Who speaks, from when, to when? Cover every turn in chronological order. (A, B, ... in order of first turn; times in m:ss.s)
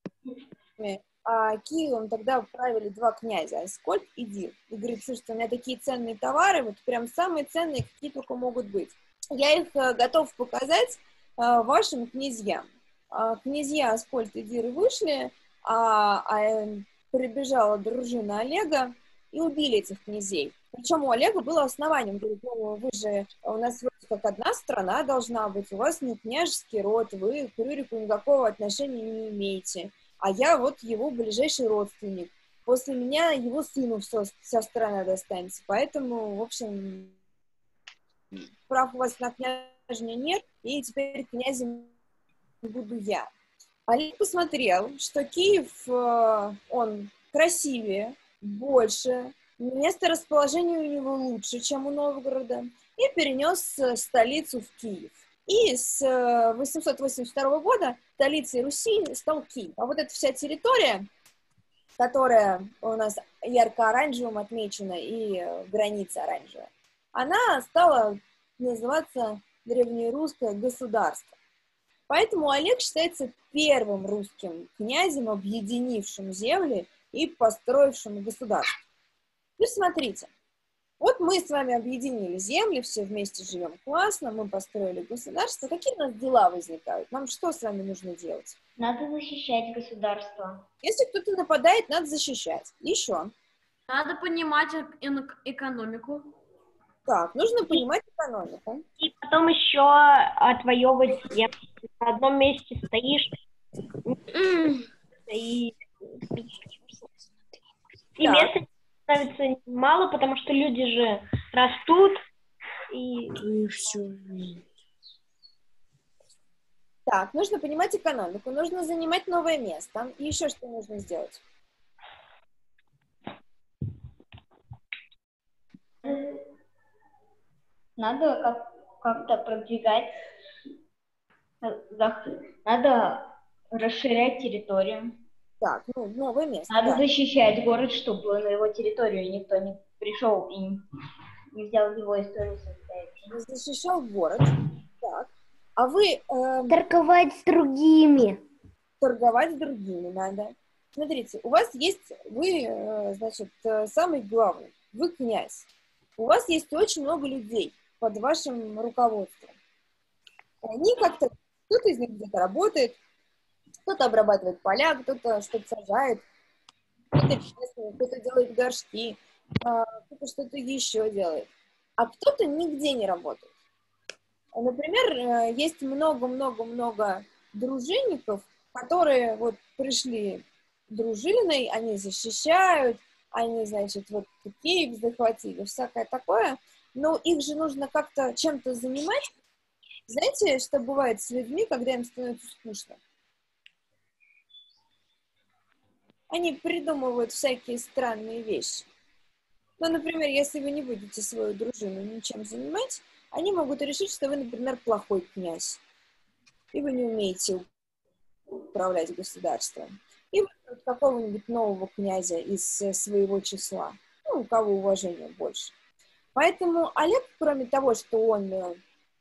0:00.8-0:37.1 A
0:38.3-0:41.9 A
0:42.6-0:43.3 A
0:43.9-1:01.1 A
1:02.0-1:11.4 A
1:12.1-1:18.8 A
1:19.6-1:20.3 A
1:21.0-1:28.6 A
1:28.8-1:30.6 B
1:30.8-1:33.3 A
1:33.9-1:36.3 C
1:37.0-1:38.8 A
1:39.0-1:43.4 D
1:45.3-1:46.5 D
1:48.2-1:52.2 D
1:48.2-1:48.5 A
1:52.9-1:53.5 D
1:53.6-1:53.8 E
1:57.1-2:01.4 A
2:06.0-2:06.4 B
2:08.0-2:10.2 B
2:11.6-2:15.1 B
2:15.6-2:17.0 A
2:16.7-2:20.8 B
2:21.5-2:23.2 B
2:23.3-2:26.8 A
2:26.7-2:28.4 E
2:29.0-2:35.6 A
2:36.2-2:39.5 A
2:40.6-2:43.0 A
2:43.8-2:46.2 A
2:47.1-2:53.5 A
2:54.5-3:09.3 A
3:10.1-3:13.0 A
3:16.3-3:18.8 A
3:19.8-3:25.8 A
3:26.7-3:27.6 A
3:28.7-3:35.7 A
3:36.3-3:38.8 A